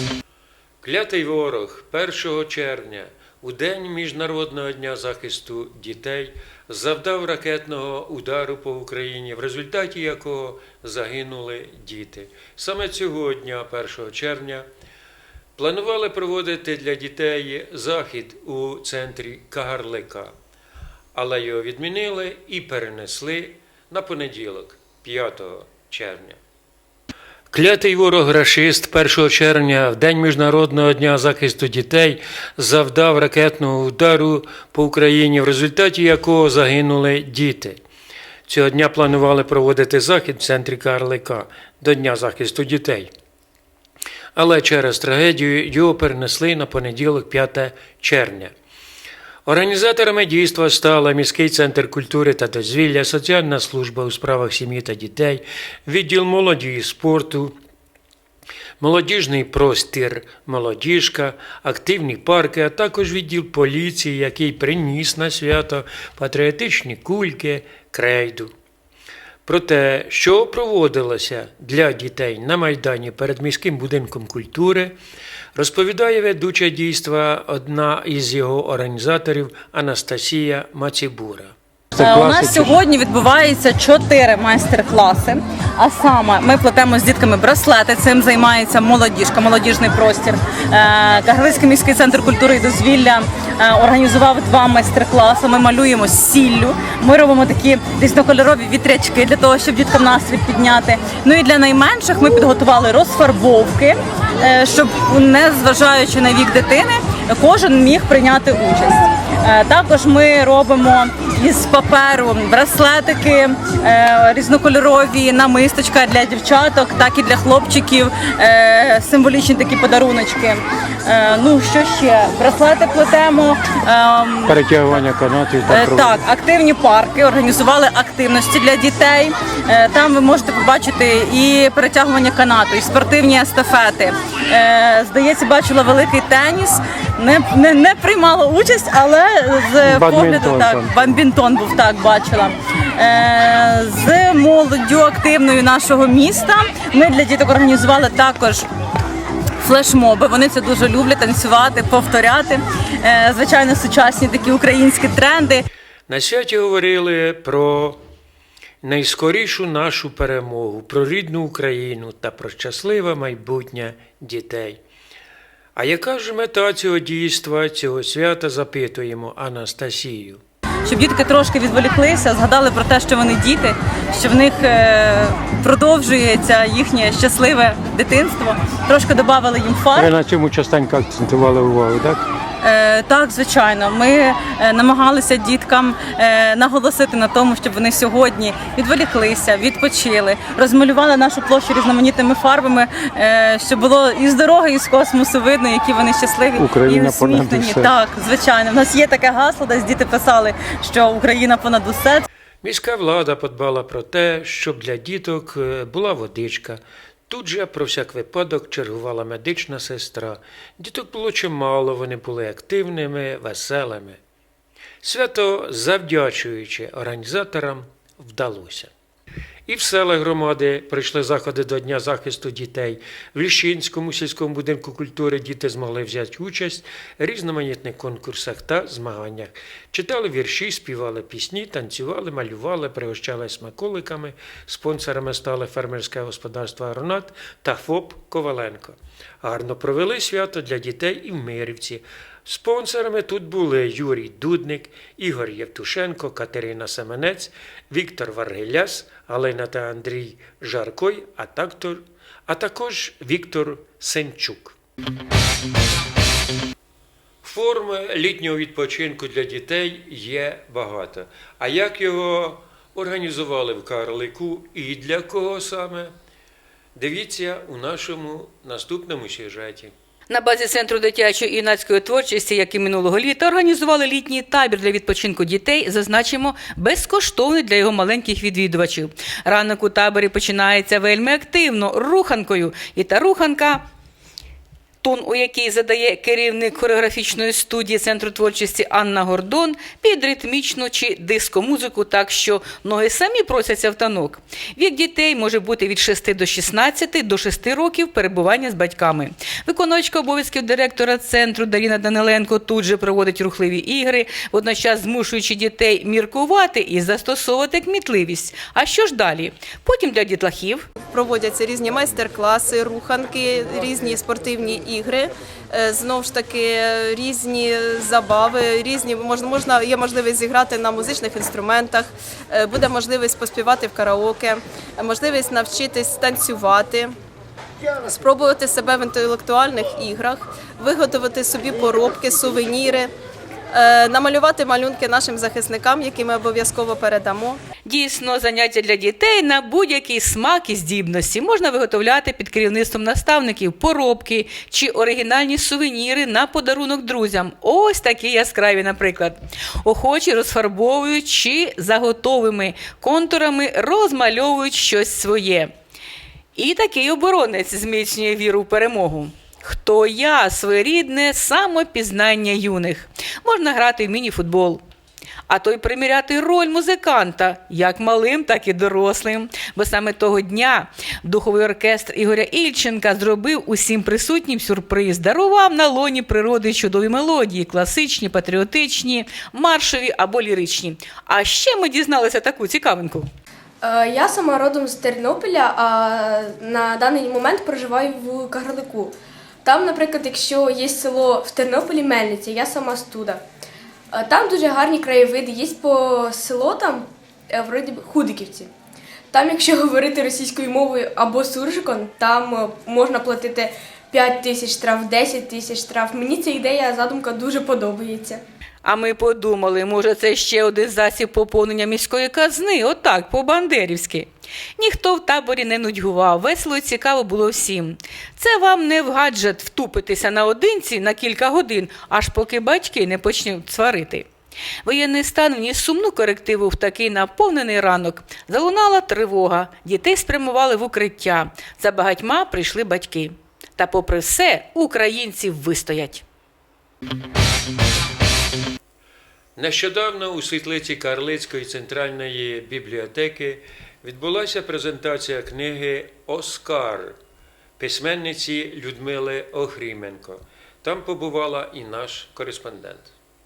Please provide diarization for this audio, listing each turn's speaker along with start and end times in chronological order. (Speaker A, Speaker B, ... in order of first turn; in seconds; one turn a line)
Speaker A: 0.8-14.7
Speaker A: 15.6-20.3
Speaker A: 21.1-26.4
Speaker A: 27.5-37.8
Speaker A: 38.5-43.1
Speaker A: 44.3-48.5
Speaker A: 49.5-57.5
Speaker A: 58.8-68.5
Speaker A: 69.5-75.0
Speaker A: 75.5-82.8
Speaker B: 82.0-125.0
Speaker A: 124.5-126.2
Speaker B: 125.7-148.7
Speaker A: 139.8-140.9
Speaker B: 149.6-155.6
Speaker A: 156.1-158.0
Speaker A: 158.8-164.8
Speaker A: 165.8-170.4
Speaker B: 170.8-180.1
Speaker A: 179.9-182.2
Speaker B: 182.6-202.2
Speaker A: 196.6-197.9
Speaker A: 202.6-214.2
Speaker A: 215.0-218.9
Speaker A: 219.7-254.8
Speaker A: 257.4-266.1
Speaker A: 266.9-269.9
Speaker C: 270.3-283.8
Speaker C: 285.0-310.9
Speaker D: 311.1-327.1
Speaker D: 328.0-333.1
Speaker D: 333.7-337.6
Speaker C: 337.8-355.7
Speaker C: 356.6-364.8
Speaker C: 365.5-383.3
Speaker E: 383.8-393.4
Speaker E: 394.1-398.7
Speaker E: 399.3-408.4
Speaker C: 408.8-424.3
Speaker C: 424.8-436.2
Speaker A: 439.6-447.2
Speaker A: 447.8-453.1